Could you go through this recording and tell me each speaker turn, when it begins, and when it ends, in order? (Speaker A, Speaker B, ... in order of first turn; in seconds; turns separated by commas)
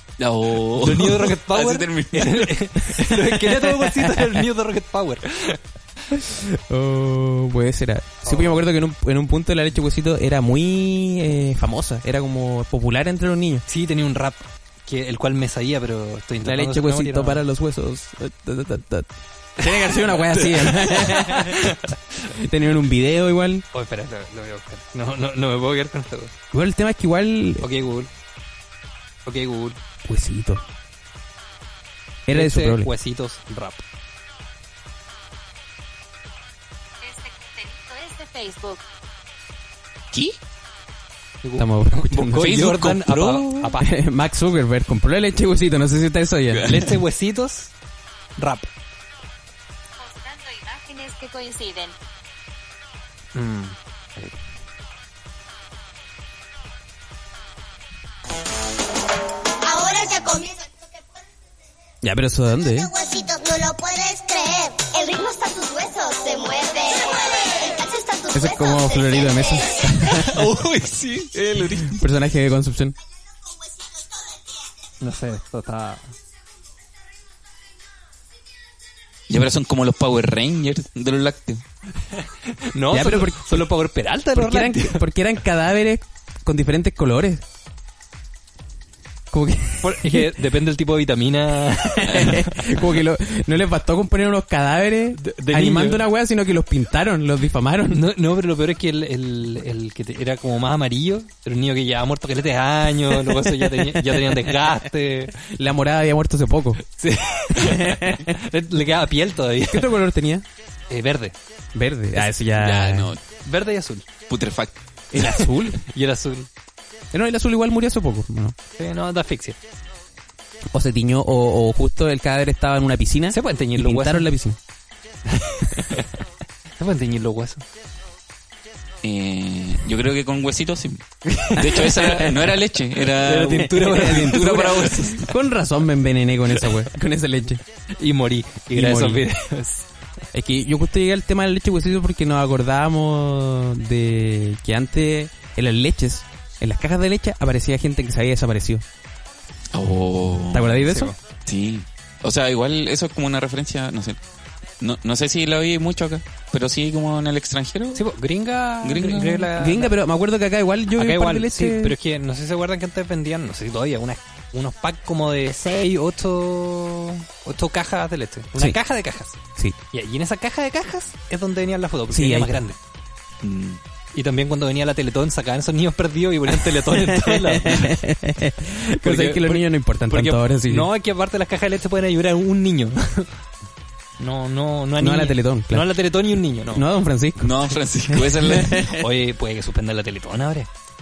Speaker A: 0.2-3.0, Speaker B: 0.7-5.6, Speaker C: 3.5-4.3, Speaker C: 6.1-13.6, Speaker B: 8.2-8.5, Speaker B: 13.7-17.4, Speaker C: 16.4-23.6, Speaker B: 20.6-21.9, Speaker B: 23.7-26.3, Speaker C: 26.5-27.6, Speaker B: 27.6-28.1, Speaker B: 29.2-29.8, Speaker C: 30.0-30.6, Speaker C: 32.3-32.9, Speaker B: 32.3-33.8, Speaker D: 37.0-38.8, Speaker B: 41.4-43.9, Speaker C: 41.6-42.5, Speaker A: 42.3-43.7, Speaker C: 43.8-46.7, Speaker A: 46.5-46.9, Speaker B: 46.6-47.7, Speaker B: 48.4-48.7, Speaker D: 50.0-51.9, Speaker B: 53.3-53.8, Speaker E: 59.6-60.8, Speaker C: 62.0-62.9, Speaker E: 62.6-70.2, Speaker C: 68.3-70.5, Speaker A: 70.1-72.0, Speaker C: 71.9-73.0, Speaker B: 75.0-76.1, Speaker A: 79.3-81.6, Speaker B: 82.5-85.0, Speaker C: 82.9-83.7, Speaker C: 84.3-87.4, Speaker C: 89.3-90.3, Speaker B: 89.8-92.8, Speaker C: 91.8-98.1, Speaker B: 95.2-96.0, Speaker B: 97.9-105.3, Speaker C: 103.5-104.3, Speaker C: 105.5-106.8, Speaker B: 106.9-109.9, Speaker C: 107.5-108.4, Speaker C: 109.7-110.5, Speaker B: 110.9-111.4, Speaker C: 111.7-113.2, Speaker A: 112.4-113.2, Speaker B: 113.4-114.1, Speaker A: 114.3-114.7, Speaker C: 115.1-115.8, Speaker B: 115.2-116.5, Speaker C: 117.1-118.5, Speaker B: 118.8-119.6, Speaker C: 120.7-124.6, Speaker B: 123.3-124.3, Speaker B: 125.3-126.1, Speaker B: 126.8-127.6, Speaker A: 129.0-135.3, Speaker B: 131.3-132.3, Speaker C: 132.2-132.5, Speaker B: 133.2-135.2, Speaker C: 133.6-137.6, Speaker B: 138.0-139.8, Speaker C: 138.7-139.2, Speaker C: 140.3-148.8, Speaker A: 149.7-150.8, Speaker C: 150.5-151.1, Speaker B: 150.8-151.2, Speaker A: 151.4-154.2, Speaker A: 154.8-158.1, Speaker B: 157.9-159.9, Speaker A: 158.8-159.5, Speaker C: 159.6-161.9, Speaker B: 160.9-172.8, Speaker C: 172.1-172.6, Speaker A: 173.4-173.8, Speaker B: 174.1-177.9, Speaker C: 177.0-180.9, Speaker B: 179.0-183.3, Speaker B: 184.2-186.9, Speaker C: 185.0-185.9, Speaker C: 186.7-189.0, Speaker A: 187.4-188.9, Speaker B: 188.9-190.7